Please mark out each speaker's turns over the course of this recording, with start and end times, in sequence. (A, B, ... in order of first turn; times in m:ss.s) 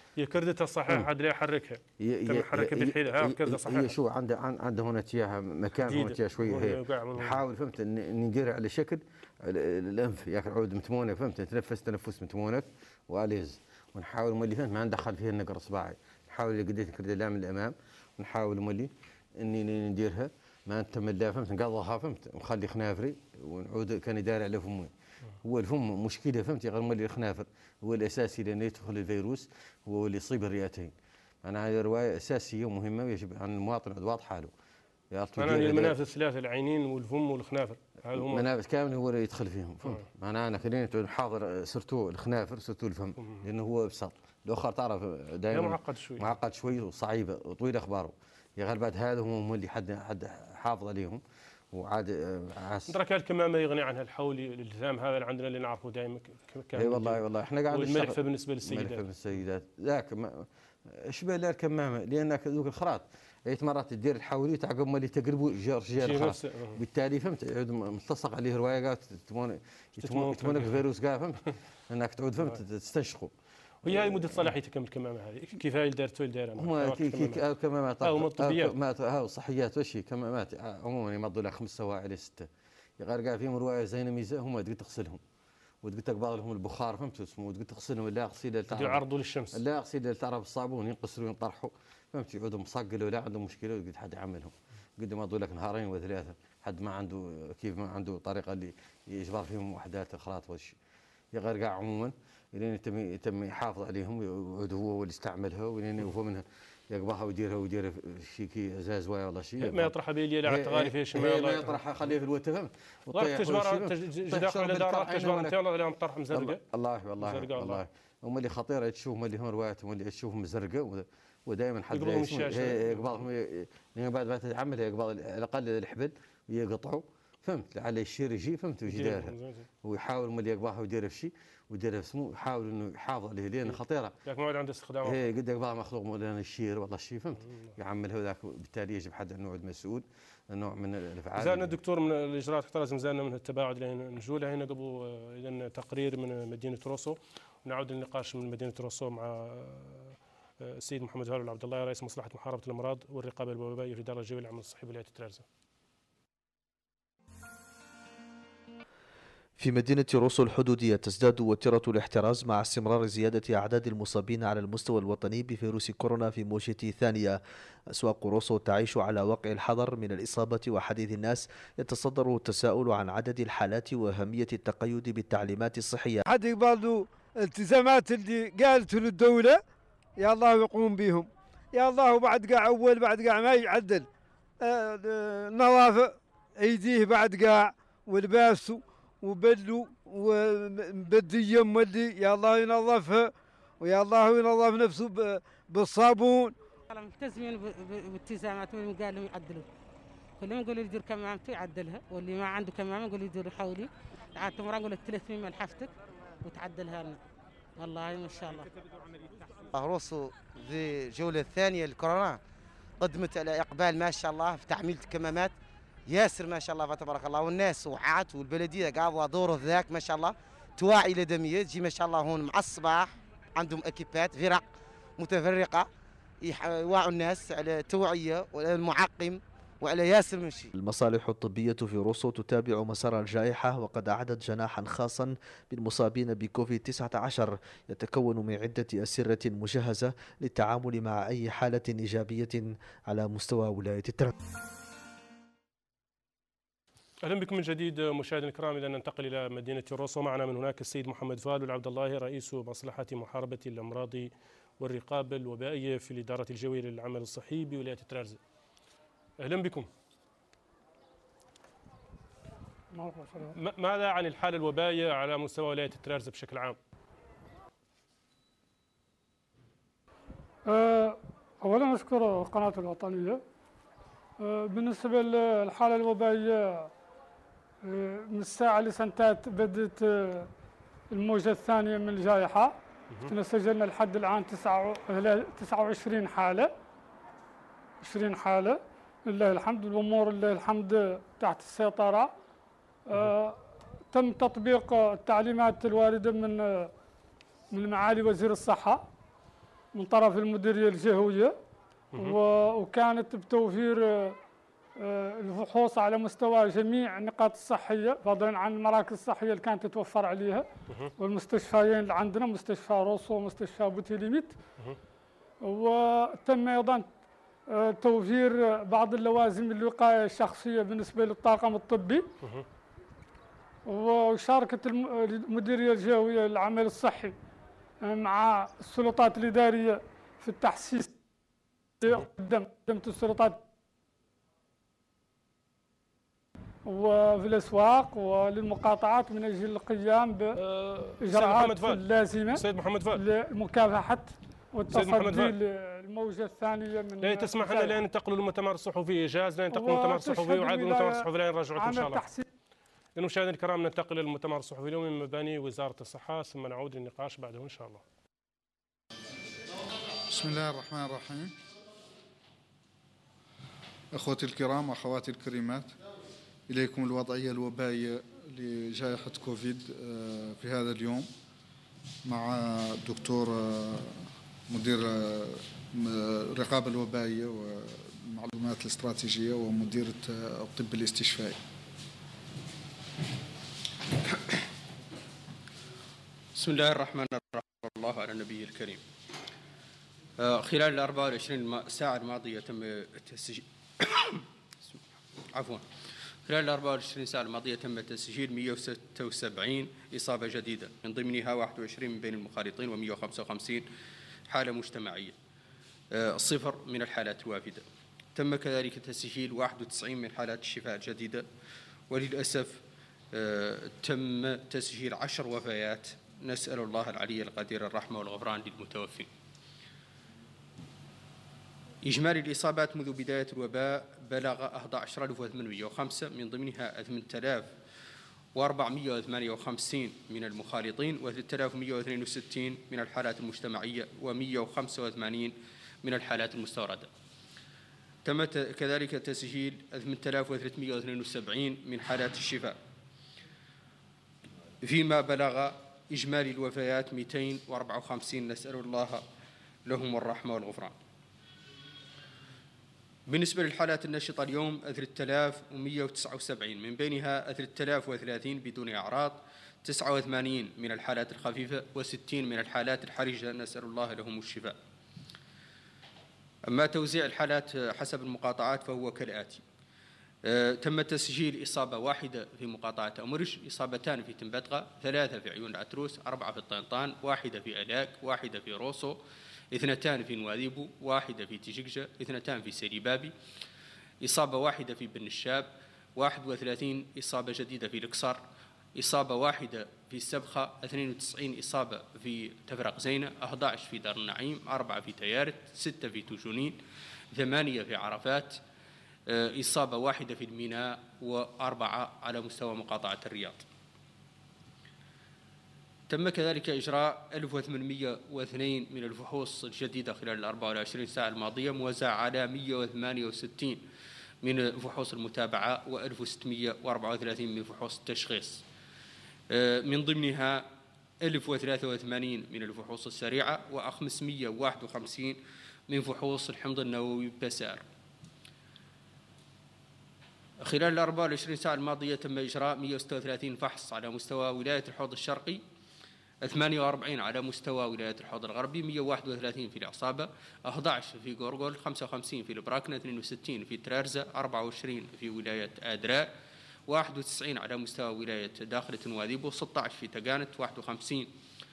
0:00.2-0:04.0 A
0:02.0-0:24.9 B
0:05.8-0:07.4 A
0:25.4-0:30.9 B
0:31.4-0:34.5 B
0:35.1-0:36.0 B
0:35.4-0:38.4 A
0:38.1-0:51.2 B
0:45.5-0:46.3 A
0:51.7-0:53.0 B
0:52.9-0:59.0 A
0:56.7-1:13.3 B
1:06.0-1:06.8 A
1:10.0-1:10.8 A
1:13.8-1:17.4 A
1:13.8-1:14.5 B
1:16.6-1:25.2 B
1:18.0-1:18.8 A
1:25.8-1:40.8 B
1:28.7-1:29.6 A
1:41.3-1:49.9 B
1:49.6-1:51.8 A
1:50.4-1:55.6 B
1:53.1-1:56.6 A
1:56.3-2:14.2 B
1:57.2-1:57.8 A
2:01.9-2:03.2 A
2:08.9-2:09.7 A
2:13.7-2:15.2 A
2:15.0-2:21.7 B
2:21.4-2:35.4 A
2:39.6-2:47.4 C
2:47.9-2:56.2 C
2:56.2-2:59.6 D
3:00.2-3:04.1 D
3:04.6-3:16.6 D
3:16.9-3:19.7 E
3:20.4-3:27.2 E
3:27.8-3:28.7 E
3:29.7-3:32.4 F
3:33.0-3:35.5 F
3:36.1-3:44.6 F
3:45.2-3:45.9 F
3:46.4-3:50.7 F
3:50.8-4:04.3 C
4:07.2-4:18.4 A
4:19.4-4:19.9 A
4:22.9-4:23.5 G
4:23.5-4:26.8 A
4:30.7-4:33.4 G
4:34.4-4:36.9 G
4:37.8-4:40.5 G
4:41.1-4:46.7 G
4:48.0-4:52.3 G
4:53.1-4:56.9 G
4:57.7-4:59.0 G
4:59.9-5:01.5 G
5:02.2-5:04.4 G
5:05.0-5:14.6 G
5:15.6-5:17.1 G
5:17.7-5:22.3 G
5:23.9-5:27.3 G
5:28.0-5:31.1 G
5:32.0-5:33.6 G
5:36.8-5:40.6 G
5:40.6-5:42.0 A
5:41.2-5:42.6 G
5:42.5-5:43.2 A
5:43.1-5:48.0 G
5:44.9-5:45.6 A
5:47.2-5:52.2 A
5:49.7-5:52.5 G
5:53.2-5:58.0 A
6:00.3-6:01.5 H
6:04.1-6:05.9 H
6:06.7-6:11.3 H
6:12.2-6:21.6 H
6:26.5-6:29.0 I
6:30.4-6:35.8 I
6:36.4-6:43.9 I
6:44.5-6:45.4 I
6:46.1-6:47.8 I
6:48.3-6:51.4 I
6:52.1-6:59.3 I
7:02.0-7:07.7 I
7:08.5-7:17.1 I
7:18.2-7:22.8 I
7:24.8-7:29.2 I
7:29.8-7:30.9 I
7:33.3-7:44.8 I
7:46.6-7:49.6 I
7:50.4-7:59.2 I
7:59.7-8:03.3 I
8:04.2-8:08.4 I
8:08.9-8:16.8 I
8:17.3-8:18.6 I
8:19.3-8:23.6 I
8:26.1-8:33.8 I
8:34.4-8:38.6 I
8:39.5-8:40.7 I
8:41.2-8:47.8 I
8:50.6-8:55.6 I
8:56.4-9:06.3 I
9:06.9-9:11.3 I